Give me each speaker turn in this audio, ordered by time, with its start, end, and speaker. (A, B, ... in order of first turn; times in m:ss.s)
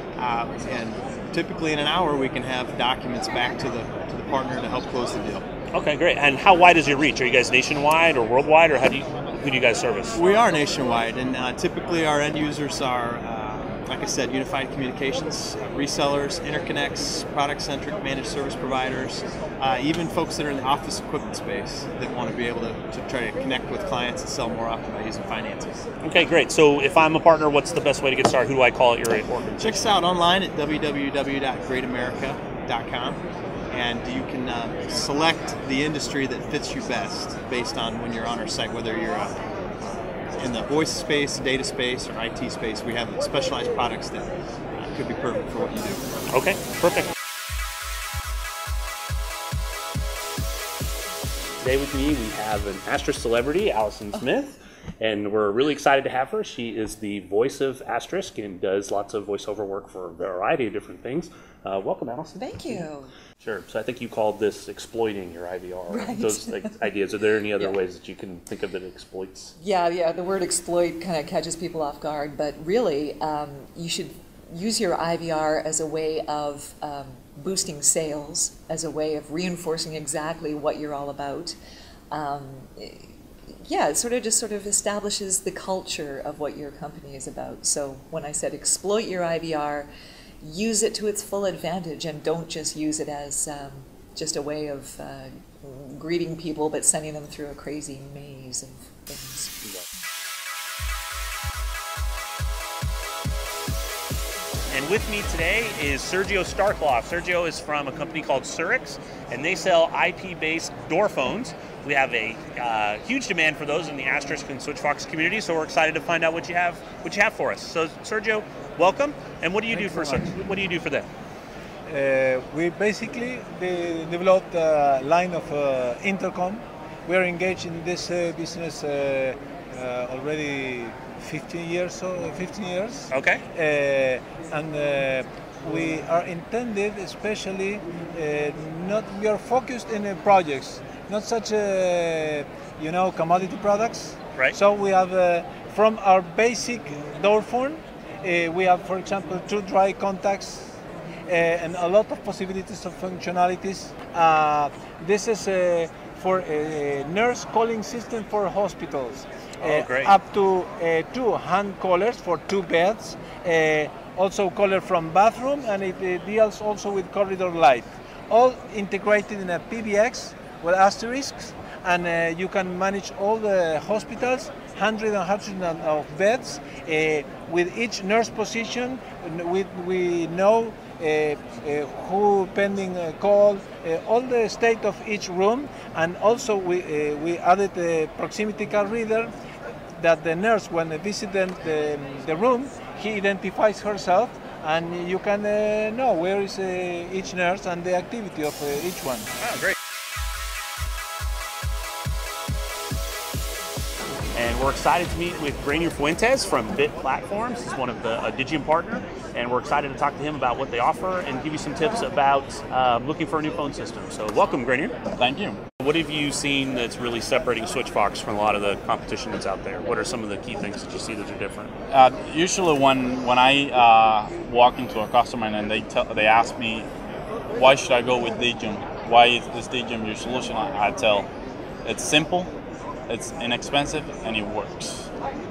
0:00.2-0:05.4 A
0:05.7-0:10.2 B
0:10.1-0:25.8 A
0:26.0-0:29.8 B
0:29.6-0:46.0 A
0:46.3-0:47.1 B
0:51.6-1:02.8 B
1:02.4-1:03.1 C
1:03.4-1:09.5 B
1:05.9-1:06.9 C
1:09.6-1:21.6 C
1:22.1-1:23.1 C
1:23.7-1:29.9 C
1:30.4-1:39.5 C
1:44.7-2:01.1 B
1:59.7-2:00.3 D
2:01.9-2:30.7 D
2:13.1-2:13.4 B
2:31.3-3:09.3 D
2:39.6-2:40.1 B
3:10.0-3:19.3 D
3:19.4-3:19.7 B
3:24.3-3:34.9 B
3:35.2-3:35.6 E
3:35.8-3:41.7 B
3:41.9-3:46.9 E
3:47.5-3:51.3 E
3:51.8-3:52.5 E
3:53.1-3:55.1 E